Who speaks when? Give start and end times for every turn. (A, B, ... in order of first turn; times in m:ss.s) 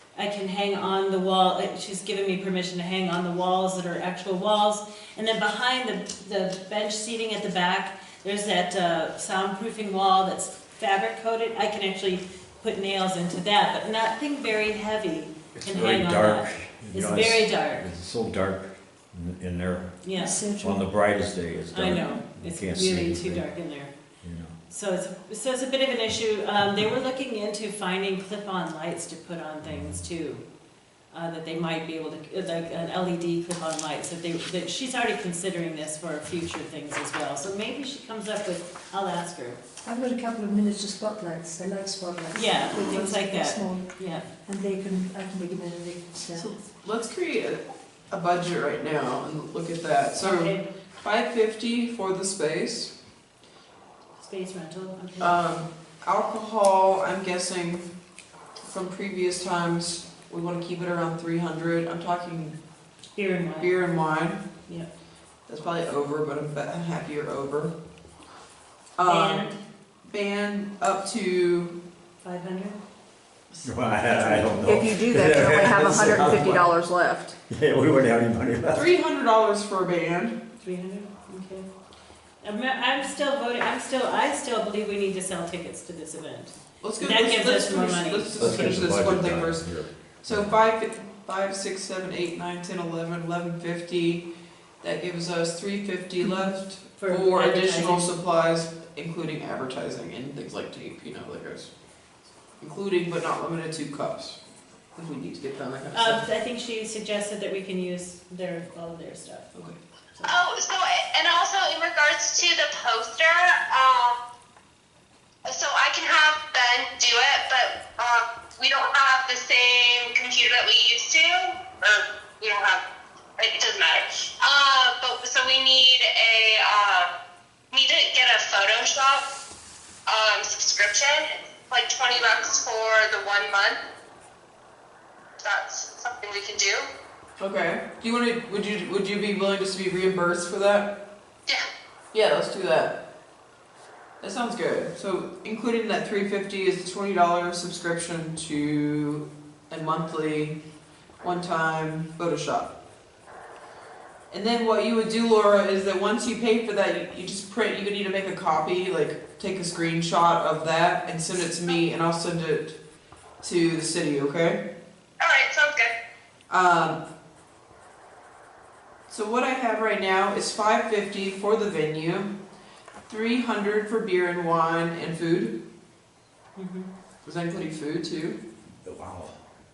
0:00.2-0:17.9 A
0:15.6-0:23.6 B
0:20.0-0:20.4 A
0:20.2-0:20.9 C
0:21.7-0:23.9 A
0:24.2-0:24.5 B
0:24.7-0:30.4 A
0:29.6-0:30.0 B
0:31.1-0:39.6 A
0:39.8-0:46.5 C
0:42.3-0:44.3 A
0:46.3-0:52.9 D
0:50.2-0:50.7 A
0:54.2-0:55.4 A
0:55.2-0:57.9 D
0:58.7-1:02.6 D
1:03.2-1:03.8 A
1:03.6-1:04.5 D
1:05.5-1:07.7 D
1:09.0-1:09.5 D
1:09.0-1:09.6 A
1:10.0-1:11.8 D
1:12.2-1:12.8 A
1:13.5-1:14.9 A
1:13.6-1:16.8 B
1:14.6-1:17.4 E
1:17.5-1:18.9 B
1:18.7-1:20.4 D
1:20.6-1:21.7 A
1:22.4-1:29.0 A
1:26.8-1:34.3 D
1:28.4-1:30.6 B
1:34.8-1:41.7 D
1:36.9-1:38.1 A
1:42.6-1:44.4 D
1:45.0-1:46.3 D
1:45.9-1:49.6 A
1:50.2-1:54.2 F
1:55.5-2:02.8 F
2:03.4-2:07.1 F
2:07.7-2:09.2 F
2:10.1-2:13.8 F
2:15.4-2:16.9 F
2:17.4-2:20.9 D
2:22.1-2:23.0 D
2:24.2-2:30.6 D
2:31.2-2:32.7 D
2:34.3-2:42.8 D
2:43.4-2:44.6 D
2:45.2-2:45.9 F
2:46.5-2:47.0 D
2:49.1-2:52.4 D
2:53.1-2:55.6 D
2:56.6-2:56.9 A
2:57.2-2:58.4 D
2:58.8-2:59.4 B